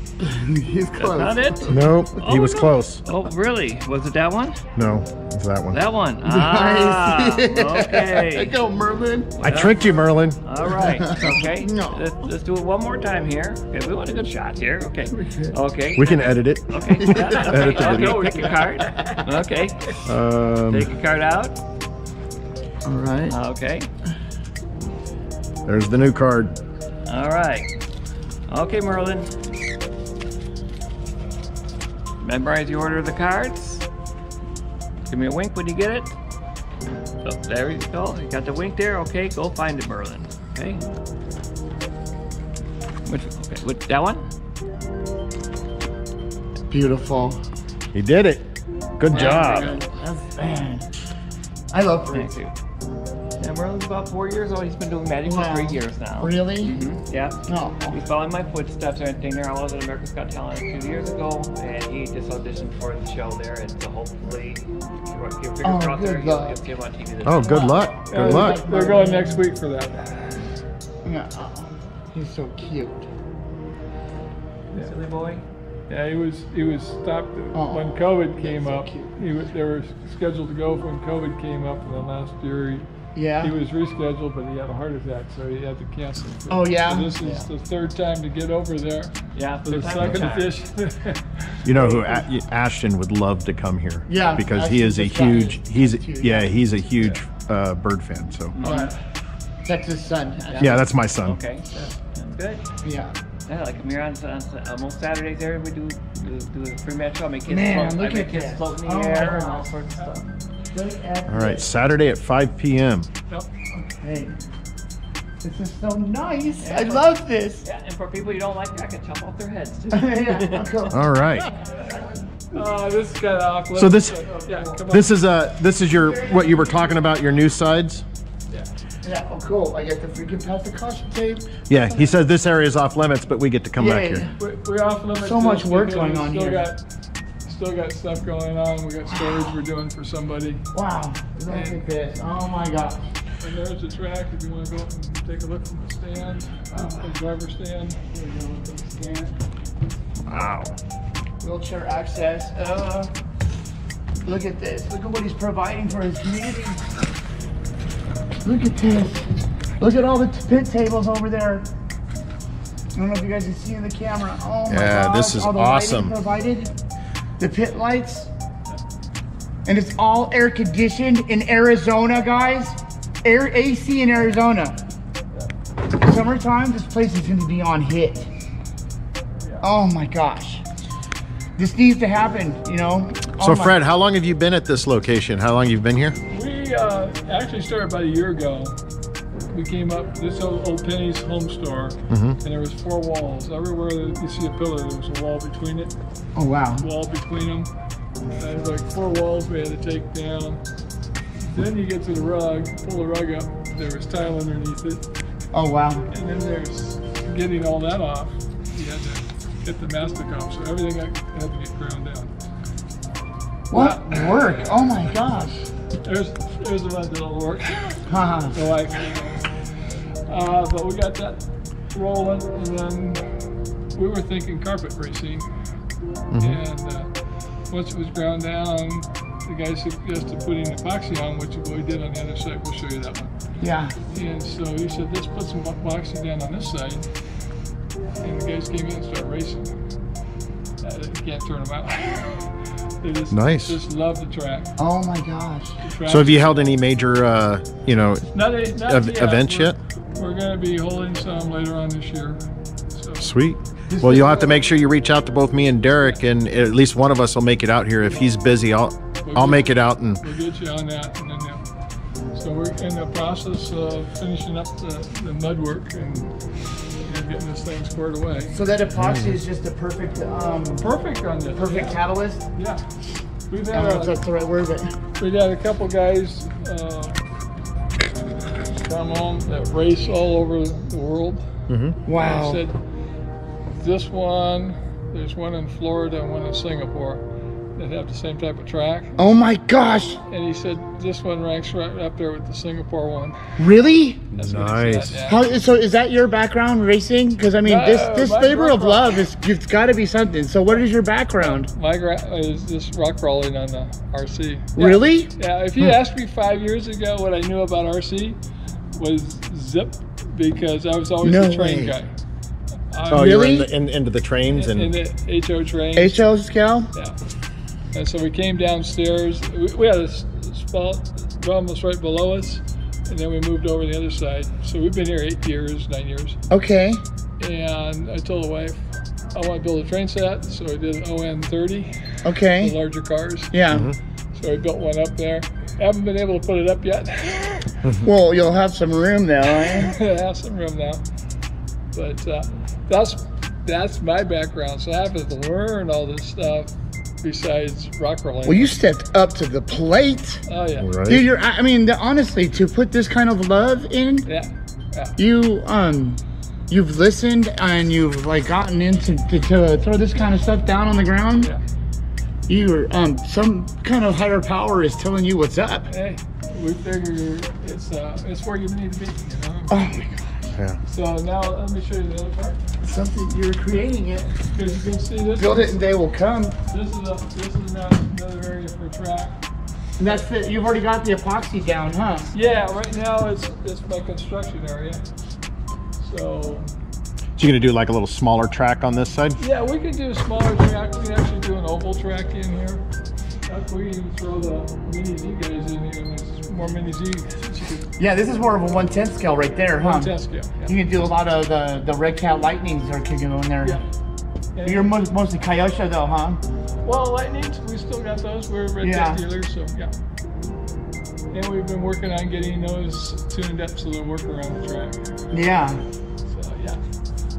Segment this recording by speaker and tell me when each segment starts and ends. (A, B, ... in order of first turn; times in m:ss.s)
0:00.2-0:01.9 A
0:01.0-0:04.6 B
0:01.7-0:03.0 C
0:04.8-0:05.8 C
0:05.7-0:08.6 B
0:06.2-0:09.3 A
0:09.4-0:20.1 B
0:09.4-0:10.4 C
0:10.7-0:12.0 A
0:16.0-0:18.5 C
0:17.1-0:18.0 A
0:17.6-0:19.2 D
0:20.0-0:20.9 C
0:20.7-0:21.6 B
0:22.8-0:23.4 A
0:23.3-0:23.9 B
0:25.7-0:26.6 C
0:27.1-0:27.7 B
0:28.5-0:29.3 B
0:32.2-0:33.8 B
0:35.1-0:36.2 B
0:37.2-0:40.8 B
0:43.1-0:44.2 B
0:46.7-0:47.4 A
0:47.9-0:48.4 C
0:49.0-0:49.7 C
0:49.1-0:49.8 B
0:49.1-0:50.8 A
0:51.7-0:52.3 A
0:52.1-0:52.5 B
0:53.4-0:57.4 B
0:55.2-0:56.8 A
0:57.5-0:58.0 A
0:57.9-1:07.9 B
1:05.6-1:06.6 A
1:07.2-1:08.6 C
1:07.4-1:09.4 A
1:08.1-1:10.5 D
1:11.0-1:13.1 A
1:14.8-1:15.4 B
1:15.9-1:22.9 D
1:17.5-1:19.1 A
1:23.2-1:23.6 A
1:23.4-1:32.0 D
1:26.5-1:27.2 A
1:27.2-1:27.5 B
1:29.4-1:30.5 B
1:30.0-1:30.3 C
1:31.6-1:38.6 C
1:34.1-1:36.6 A
1:38.6-1:38.9 B
1:38.6-1:38.9 A
1:38.6-1:38.9 D
1:39.6-1:40.9 A
1:40.5-1:42.6 B
1:40.6-1:41.4 C
1:42.8-1:43.2 A
1:43.5-1:50.3 B
1:47.5-1:49.7 A
1:50.7-1:51.7 A
1:51.3-1:53.1 C
1:53.7-1:54.4 A
1:55.4-1:57.6 A
1:56.6-1:57.0 B
1:57.6-2:00.9 B
1:59.9-2:01.0 A
2:00.9-2:01.5 C
2:01.8-2:02.6 A
2:02.5-2:05.2 D
2:03.8-2:04.3 C
2:04.3-2:04.8 A
2:04.8-2:08.0 C
2:05.9-2:07.0 A
2:09.0-2:12.1 A
2:11.7-2:14.3 C
2:13.8-2:14.4 A
2:14.4-2:16.9 D
2:15.2-2:16.7 A
2:17.4-2:20.7 D
2:20.7-2:23.0 A
2:21.5-2:21.8 D
2:23.4-2:28.0 D
2:26.7-2:27.2 A
2:28.1-2:29.4 A
2:30.2-2:30.7 C
2:31.4-2:33.1 A
2:34.2-2:36.8 A
2:38.4-2:39.3 A
2:39.8-2:41.7 A
2:43.0-2:46.7 A
2:44.7-2:46.2 C
2:47.4-2:48.3 A
2:49.7-2:54.8 A
2:55.9-2:58.3 A
2:59.4-2:59.7 D
2:59.6-3:00.6 A
3:01.6-3:03.8 A
3:03.4-3:06.2 C
3:06.3-3:08.8 D
3:09.5-3:15.9 D
3:12.1-3:12.4 C
3:16.4-3:16.9 A
3:16.8-3:17.7 D
3:18.4-3:20.6 D
3:21.4-3:25.0 D
3:25.5-3:26.1 A
3:26.1-3:32.3 D
3:33.7-3:35.6 A
3:33.7-3:34.9 D
3:36.0-3:39.6 D
3:38.1-3:38.6 A
3:40.3-3:45.5 D
3:46.3-3:46.6 C
3:46.4-3:47.1 D
3:47.7-3:53.4 D
3:53.6-3:54.0 A
3:54.1-3:57.1 D
3:58.2-3:59.8 D
4:00.8-4:04.7 D
4:03.3-4:03.8 C
4:04.8-4:05.8 A
4:05.8-4:06.7 D
4:06.0-4:09.8 C
4:08.3-4:13.3 D
4:13.2-4:20.2 C
4:13.9-4:14.6 A
4:19.2-4:21.7 D
4:22.3-4:28.6 D
4:28.5-4:30.9 A
4:28.9-4:29.4 C
4:30.8-4:32.0 D
4:31.5-4:32.4 A
4:32.5-4:32.8 D
4:33.5-4:34.2 D
4:33.7-4:35.0 A
4:35.2-4:37.2 D
4:38.7-4:41.5 D
4:41.7-4:42.0 C
4:42.1-4:42.6 A
4:42.1-4:42.8 D
4:43.8-4:47.2 D
4:47.8-4:49.2 D
4:49.2-4:50.2 A
4:50.3-4:53.4 D
4:53.6-4:54.4 A
4:54.3-4:55.4 D
4:54.4-4:55.2 C
4:55.3-5:01.7 A
4:57.6-4:59.2 D
5:01.4-5:08.4 D
5:04.8-5:05.3 A
5:09.0-5:12.1 D
5:11.2-5:12.0 A
5:12.9-5:13.5 D
5:13.1-5:13.7 A
5:13.1-5:14.9 C
5:14.5-5:16.2 D
5:16.0-5:16.9 A
5:17.9-5:26.4 D
5:26.5-5:27.0 A
5:27.4-5:33.5 D
5:32.2-5:32.8 A
5:33.5-5:33.9 A
5:33.7-5:34.0 C
5:34.3-5:37.7 D
5:38.0-5:39.9 A
5:39.6-5:41.0 D
5:41.9-5:48.8 D
5:48.4-5:50.4 A
5:50.5-5:50.9 D
5:50.8-5:51.2 C
5:51.0-5:54.3 A
5:54.3-5:55.2 D
5:55.2-6:01.5 A
6:02.5-6:05.9 A
6:05.9-6:09.8 D
6:09.7-6:10.6 A
6:10.8-6:12.6 D
6:12.8-6:14.3 A
6:14.5-6:15.8 D
6:15.4-6:16.6 A
6:16.7-6:19.4 D
6:20.0-6:22.3 A
6:22.3-6:25.0 D
6:26.0-6:26.7 D
6:27.4-6:29.4 C
6:29.4-6:32.8 D
6:33.5-6:37.9 D
6:38.0-6:43.8 A
6:39.8-6:40.7 D
6:44.6-6:44.9 D
6:44.6-6:46.4 A
6:46.8-6:50.0 D
6:48.8-6:49.2 A
6:51.3-6:55.2 D
6:55.3-6:55.8 A
6:56.3-6:56.8 D